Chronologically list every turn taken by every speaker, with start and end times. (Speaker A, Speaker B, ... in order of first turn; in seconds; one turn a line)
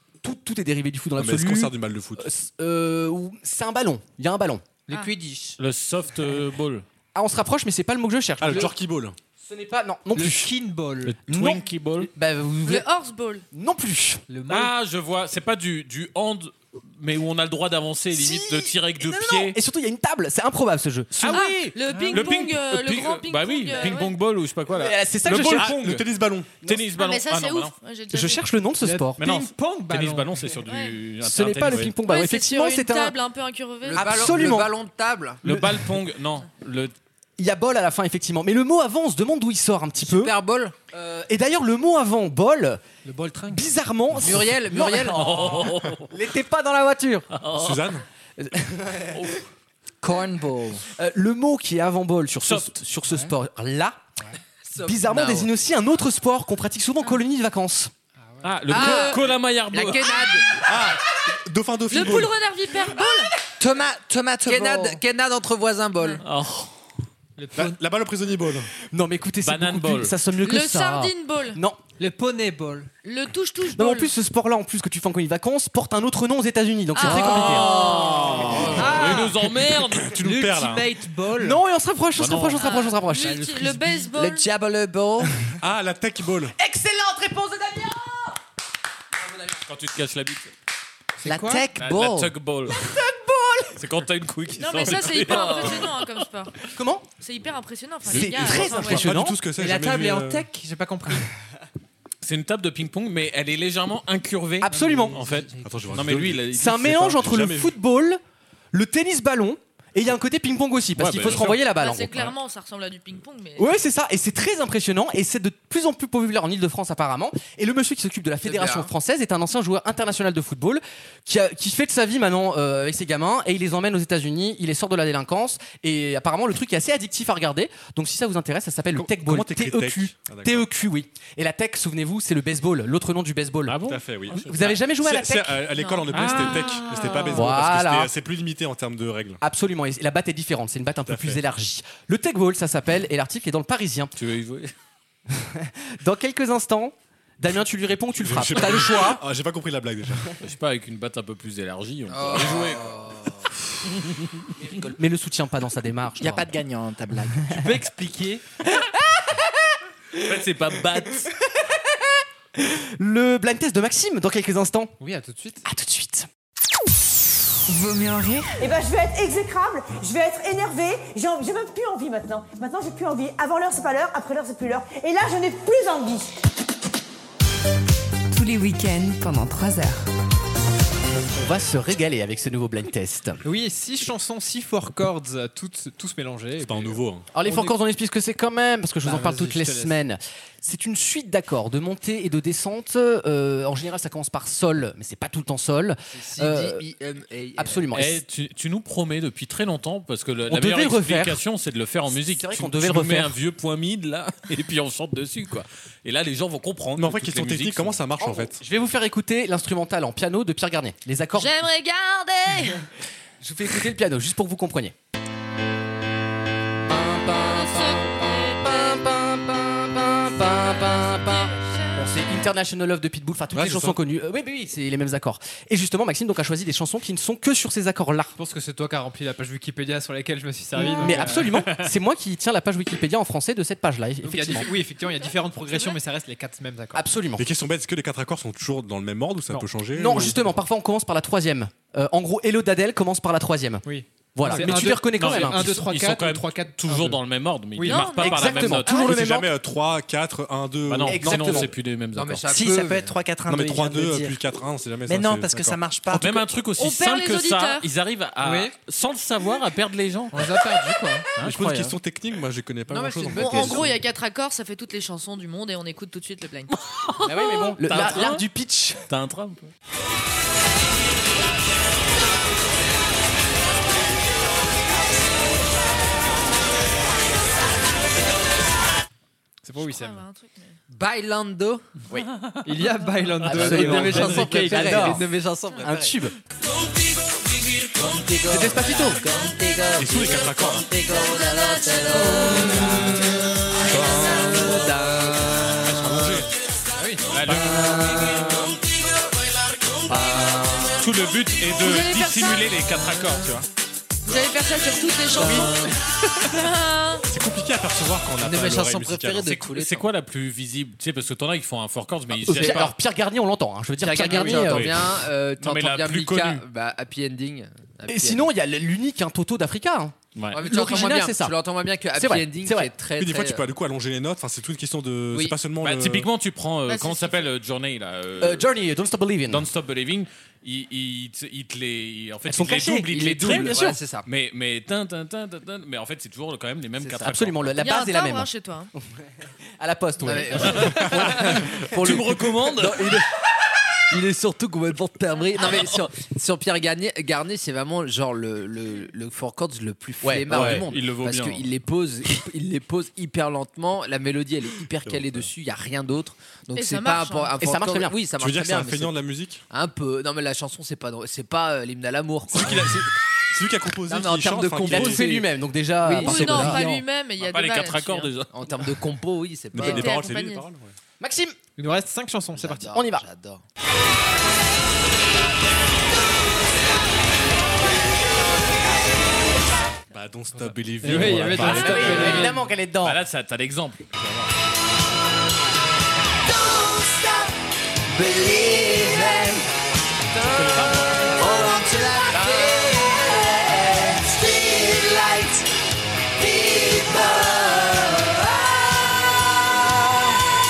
Speaker A: 0.2-4.6
Speaker B: 1.2-2.3
Speaker C: 4.9-5.5
Speaker D: 5.6-6.8
Speaker A: 7.1-8.7
Speaker B: 8.4-9.1
Speaker A: 9.4-10.5
Speaker E: 10.1-11.2
Speaker D: 11.0-12.1
Speaker A: 11.3-12.9
Speaker F: 12.6-13.4
Speaker A: 13.5-14.2
Speaker E: 14.3-14.7
Speaker D: 14.5-19.6
Speaker A: 18.1-21.7
Speaker E: 21.2-22.4
Speaker F: 21.3-24.1
Speaker D: 22.0-26.1
Speaker A: 24.7-25.8
Speaker B: 25.2-26.9
Speaker D: 26.6-27.7
Speaker F: 26.9-28.4
Speaker A: 28.1-29.2
Speaker E: 28.8-30.3
Speaker D: 29.2-31.9
Speaker F: 30.7-31.0
Speaker A: 31.2-33.2
Speaker F: 32.0-34.3
Speaker C: 33.8-35.4
Speaker A: 34.0-34.7
Speaker D: 35.4-36.9
Speaker A: 35.4-35.9
Speaker A: 37.4-40.3
Speaker C: 40.0-40.7
Speaker A: 40.9-42.8
Speaker E: 43.0-43.7
Speaker A: 43.5-47.3
Speaker C: 44.2-45.5
Speaker D: 45.1-46.1
Speaker D: 47.3-48.0
Speaker B: 47.6-48.0
Speaker A: 48.4-49.3
Speaker D: 49.1-49.4
Speaker G: 50.0-50.8
Speaker A: 50.9-54.0
Speaker D: 52.5-52.7
Speaker C: 54.6-55.5
Speaker A: 54.9-57.9
Speaker E: 58.2-58.5
Speaker D: 58.4-60.2
Speaker C: 58.7-59.2
Speaker F: 58.7-59.2
Speaker C: 59.7-60.5
Speaker B: 60.5-62.4
Speaker F: 61.9-63.3
Speaker G: 63.6-65.0
Speaker C: 64.5-66.2
Speaker D: 66.2-66.7
Speaker E: 67.4-67.8
Speaker B: 67.5-68.7
Speaker A: 68.9-71.8
Speaker D: 69.4-70.1
Speaker F: 70.4-71.6
Speaker E: 72.0-72.9
Speaker F: 73.0-74.1
Speaker A: 73.7-78.5
Speaker F: 76.9-78.1
Speaker E: 77.1-79.5
Speaker D: 77.4-80.2
Speaker B: 78.5-79.0
Speaker B: 80.0-80.9
Speaker E: 80.2-81.6
Speaker A: 81.3-83.6
Speaker D: 82.2-82.7
Speaker F: 82.5-84.5
Speaker G: 84.1-85.4
Speaker B: 85.6-86.5
Speaker A: 86.5-88.4
Speaker D: 89.7-90.5
Speaker E: 91.2-91.7
Speaker G: 91.2-92.3
Speaker D: 91.8-92.9
Speaker A: 92.7-93.8
Speaker D: 93.8-96.2
Speaker F: 94.6-96.5
Speaker A: 96.7-97.1
Speaker F: 97.2-98.7
Speaker A: 98.0-99.4
Speaker B: 98.0-100.5
Speaker E: 98.6-101.3
Speaker D: 102.2-107.1
Speaker A: 104.6-105.2
Speaker E: 104.7-106.2
Speaker B: 105.6-107.7
Speaker A: 106.5-108.2
Speaker A: 108.7-112.2
Speaker D: 111.0-111.6
Speaker F: 111.7-113.7
Speaker A: 113.6-133.8
Speaker C: 118.4-118.9
Speaker B: 128.9-130.7
Speaker D: 133.7-134.8
Speaker B: 133.8-139.4
Speaker A: 134.5-135.6
Speaker F: 135.7-137.5
Speaker D: 136.1-137.1
Speaker A: 137.3-138.1
Speaker A: 139.4-144.1
Speaker B: 141.1-141.4
Speaker D: 144.2-144.7
Speaker A: 145.3-149.2
Speaker B: 148.2-150.3
Speaker D: 150.4-153.1
Speaker C: 152.1-153.4
Speaker D: 153.9-154.4
Speaker A: 154.6-156.5
Speaker G: 156.2-157.6
Speaker E: 157.5-158.4
Speaker A: 158.6-159.6
Speaker D: 160.1-161.3
Speaker A: 161.5-164.9
Speaker E: 165.0-165.6
Speaker A: 165.6-166.3
Speaker H: 167.7-168.5
Speaker I: 168.6-176.3
Speaker H: 178.3-180.1
Speaker A: 181.3-183.4
Speaker E: 183.4-187.8
Speaker B: 186.6-187.3
Speaker A: 187.3-196.8
Speaker E: 189.0-190.0
Speaker C: 196.1-197.8
Speaker A: 197.6-198.2
Speaker D: 197.9-208.0
Speaker A: 200.5-201.4
Speaker A: 202.1-203.3
Speaker B: 206.9-208.6
Speaker A: 208.2-211.6
Speaker F: 211.4-212.8
Speaker A: 213.4-214.9
Speaker A: 216.9-228.3
Speaker F: 217.2-219.0
Speaker F: 220.4-222.2
Speaker B: 223.5-224.0
Speaker E: 228.3-231.9
Speaker A: 230.8-234.7
Speaker E: 234.2-237.0
Speaker F: 235.2-236.0
Speaker A: 236.9-237.5
Speaker B: 237.3-240.4
Speaker A: 239.9-243.8
Speaker E: 243.8-247.2
Speaker A: 244.3-245.8
Speaker D: 244.4-249.1
Speaker E: 247.8-248.2
Speaker F: 247.8-248.6
Speaker A: 248.2-249.5
Speaker B: 248.8-251.7
Speaker D: 250.9-252.5
Speaker A: 251.1-251.7
Speaker C: 252.1-253.2
Speaker G: 252.5-254.4
Speaker B: 253.5-255.8
Speaker G: 255.1-256.5
Speaker D: 256.1-260.5
Speaker F: 256.8-257.9
Speaker E: 258.4-258.7
Speaker E: 260.3-261.3
Speaker D: 261.4-261.9
Speaker B: 261.4-263.9
Speaker C: 262.9-263.9
Speaker F: 263.4-266.7
Speaker D: 267.1-268.4
Speaker A: 267.2-269.0
Speaker D: 269.1-269.7
Speaker E: 279.6-280.2
Speaker F: 279.8-280.8
Speaker C: 280.9-281.9
Speaker E: 282.6-285.3
Speaker A: 283.4-285.3
Speaker C: 283.5-286.1
Speaker A: 285.8-286.4
Speaker C: 287.9-296.4
Speaker A: 288.5-289.2
Speaker B: 290.0-290.9
Speaker E: 292.4-293.1
Speaker A: 292.6-292.9
Speaker B: 293.9-295.0
Speaker B: 295.7-296.5
Speaker E: 296.9-297.4
Speaker D: 297.3-298.2
Speaker C: 297.6-298.7
Speaker C: 300.1-301.0
Speaker D: 301.0-303.7
Speaker F: 301.8-302.7
Speaker F: 304.2-307.2
Speaker D: 305.4-305.9
Speaker B: 307.3-309.7
Speaker C: 308.4-310.1
Speaker D: 309.7-312.9
Speaker A: 312.4-314.9
Speaker C: 312.6-312.9
Speaker C: 314.0-318.5
Speaker D: 314.4-316.6
Speaker A: 318.1-321.6
Speaker D: 320.3-320.6
Speaker C: 320.5-323.6
Speaker A: 322.1-322.9
Speaker B: 323.2-326.3
Speaker D: 325.8-328.7
Speaker F: 326.9-327.5
Speaker A: 328.4-329.7
Speaker D: 329.5-337.7
Speaker A: 332.5-334.0
Speaker C: 333.1-334.2
Speaker C: 337.0-337.2
Speaker A: 337.1-338.5
Speaker F: 337.8-338.9
Speaker A: 339.8-343.2
Speaker C: 340.2-342.2
Speaker D: 340.6-343.2
Speaker C: 344.1-359.1
Speaker A: 350.2-350.9
Speaker D: 350.5-351.6
Speaker B: 355.0-355.5
Speaker F: 356.7-357.6
Speaker A: 357.6-358.2
Speaker B: 358.4-359.6
Speaker C: 359.7-363.0
Speaker B: 362.5-365.2
Speaker C: 364.1-365.5
Speaker A: 364.8-367.0
Speaker C: 366.0-366.8
Speaker F: 366.1-368.3
Speaker D: 367.4-368.5
Speaker C: 368.5-370.1
Speaker B: 369.7-370.9
Speaker F: 369.8-370.6
Speaker A: 371.2-371.6
Speaker E: 371.8-372.9
Speaker C: 372.5-373.6
Speaker A: 372.9-373.2
Speaker B: 380.1-382.3
Speaker E: 380.6-382.7
Speaker D: 381.0-382.5
Speaker A: 381.6-383.2
Speaker D: 383.0-384.5
Speaker A: 388.2-389.5
Speaker B: 390.5-391.3
Speaker D: 390.6-391.4
Speaker A: 391.6-395.6
Speaker C: 392.3-392.9
Speaker A: 396.5-397.9